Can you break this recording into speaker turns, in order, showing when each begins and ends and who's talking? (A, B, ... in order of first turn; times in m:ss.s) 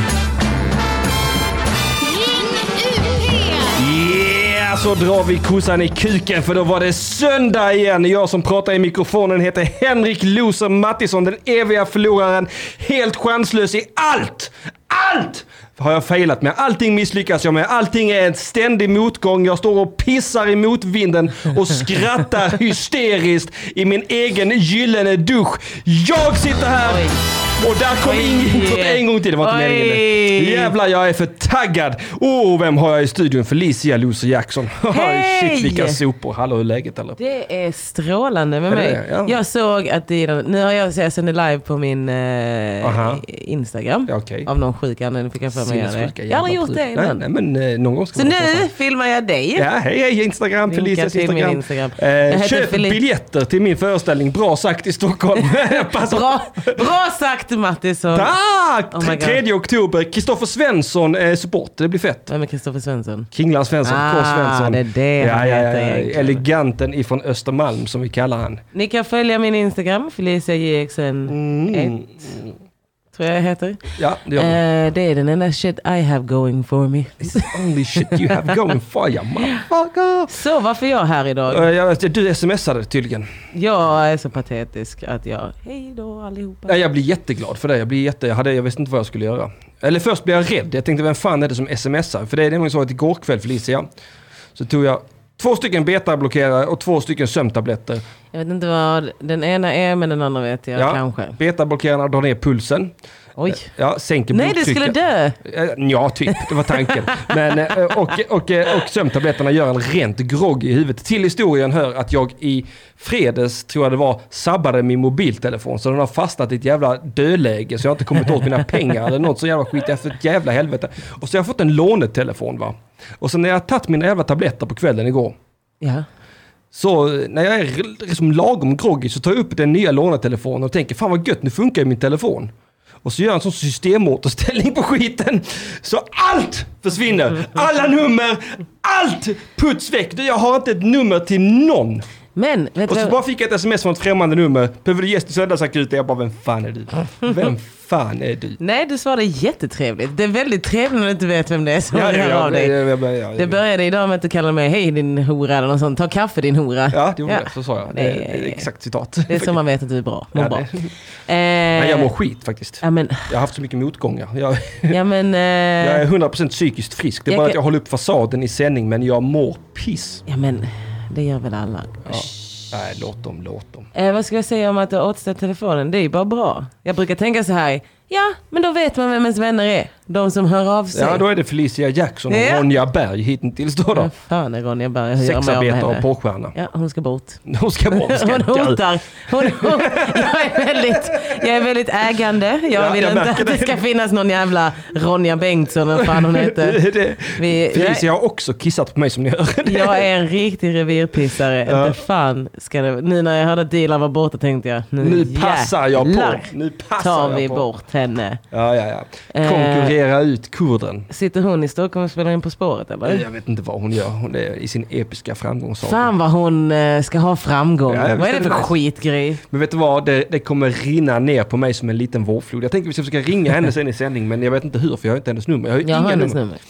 0:03.0-0:03.4 A
0:03.7-0:37.2 B
0:26.8-0:27.2 A
0:28.0-0:30.8 A
0:34.9-0:36.0 A
0:37.2-0:47.2 A
0:38.7-0:39.4 B
0:42.8-0:43.2 B
0:44.1-0:44.5 B
0:45.5-0:48.7 B
0:48.1-0:49.7 A
0:49.6-0:56.8 B
0:50.7-0:53.0 A
0:55.4-0:58.3 A
0:58.1-1:02.3 B
0:58.9-0:59.4 A
1:02.3-1:03.3 A
1:03.3-1:08.6 B
1:03.8-1:06.4 A
1:08.7-1:12.0 A
1:11.3-1:12.6 B
1:13.1-1:18.6 A
1:14.0-1:14.6 B
1:17.2-1:20.3 B
1:20.3-1:21.7 A
1:21.5-1:23.3 B
1:23.5-1:26.8 A
1:26.7-1:33.9 B
1:34.6-1:38.0 B
1:38.3-1:41.4 A
1:40.8-1:42.9 B
1:43.4-1:43.7 A
1:43.5-2:05.4 B
1:44.3-1:45.4 A
1:46.3-1:48.2 A
2:05.8-2:06.1 A
2:06.7-2:12.5 B
2:13.0-2:22.1 B
2:22.4-2:23.2 A
2:22.9-2:28.6 B
2:28.6-2:32.8 A
2:31.9-2:33.6 B
2:33.4-2:38.7 A
2:36.9-2:39.6 B
2:39.3-2:40.7 A
2:40.3-2:41.0 B
2:41.3-2:42.1 A
2:41.8-2:45.0 B
2:42.8-2:43.4 A
2:44.9-2:46.1 A
2:45.8-2:50.2 B
2:47.3-2:47.6 A
2:50.3-2:52.7 A
2:52.1-2:53.9 B
2:53.9-3:01.2 A
3:00.9-3:04.1 B
3:02.3-3:02.7 A
3:03.9-3:18.1 A
3:05.2-3:06.6 B
3:07.5-3:11.4 B
3:12.7-3:13.8 B
3:15.9-3:20.1 B
3:19.6-3:28.4 A
3:21.6-3:22.0 B
3:25.0-3:27.7 B
3:28.5-3:31.1 B
3:29.3-3:30.0 A
3:31.1-3:33.3 A
3:33.0-3:36.1 B
3:35.8-3:39.4 A
3:37.9-3:38.8 B
3:39.5-3:46.4 B
3:45.8-3:46.6 A